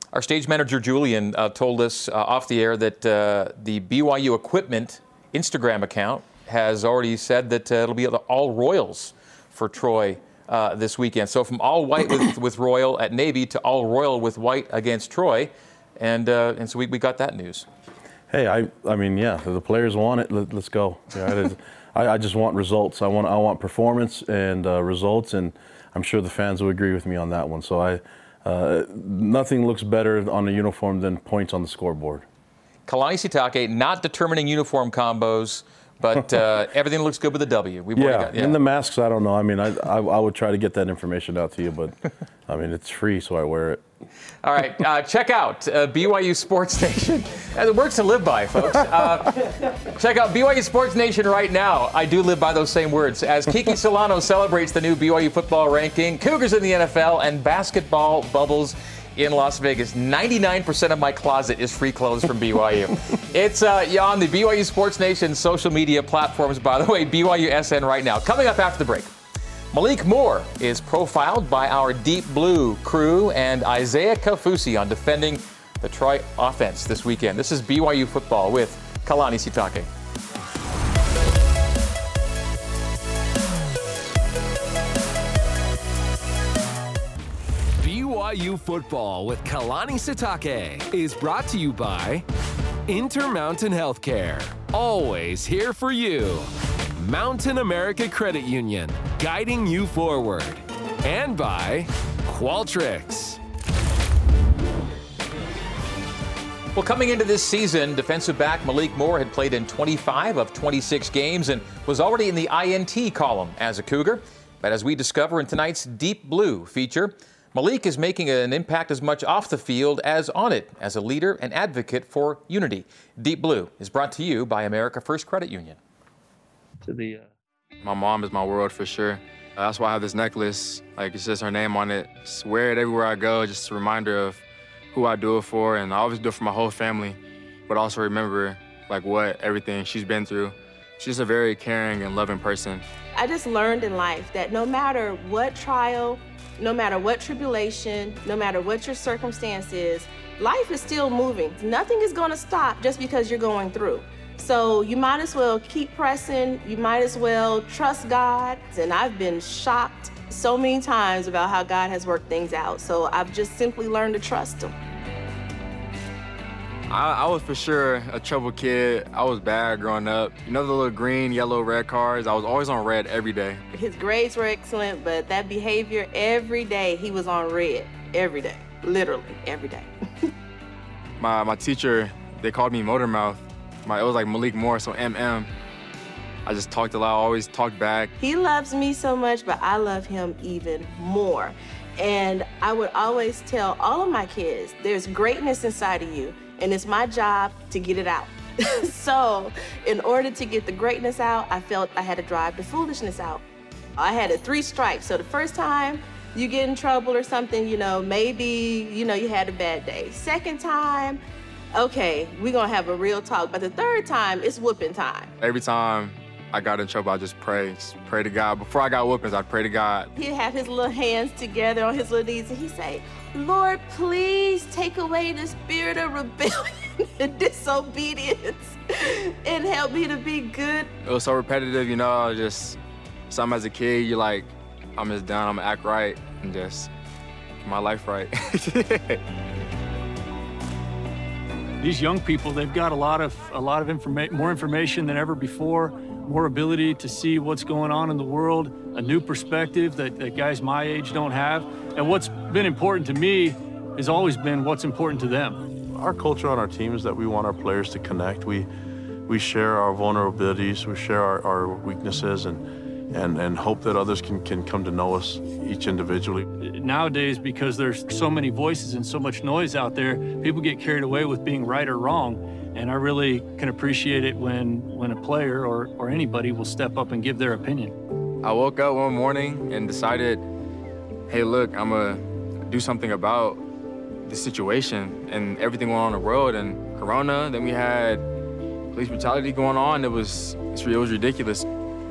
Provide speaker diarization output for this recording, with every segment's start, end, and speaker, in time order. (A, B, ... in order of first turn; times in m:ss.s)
0:00.1-0:17.7 A
0:18.3-0:32.2 B
0:32.9-0:38.6 A
0:38.0-0:42.0 B
0:42.5-0:43.8 B
0:44.4-1:09.1 A
1:09.7-1:19.9 A
1:27.8-1:32.2 C
1:32.9-1:43.4 C
1:46.8-2:05.8 A
2:07.8-2:22.8 D
2:23.2-2:44.8 E
2:46.9-2:53.6 D
2:53.7-2:59.9 E
3:01.2-3:05.5 D
3:06.4-3:08.1 D
3:08.2-3:23.4 E
3:24.0-3:31.2 E
3:31.7-3:35.3 E
3:35.4-3:40.1 D
3:40.2-3:50.9 E
3:51.0-3:56.9 D
3:57.6-3:59.2 D
4:01.8-4:15.6 F
4:15.9-4:18.7 B
4:19.3-4:26.5 B
4:26.6-4:38.0 F
4:38.4-4:40.4 D
4:41.3-4:43.6 D
4:44.2-4:48.3 D
4:48.9-4:51.7 D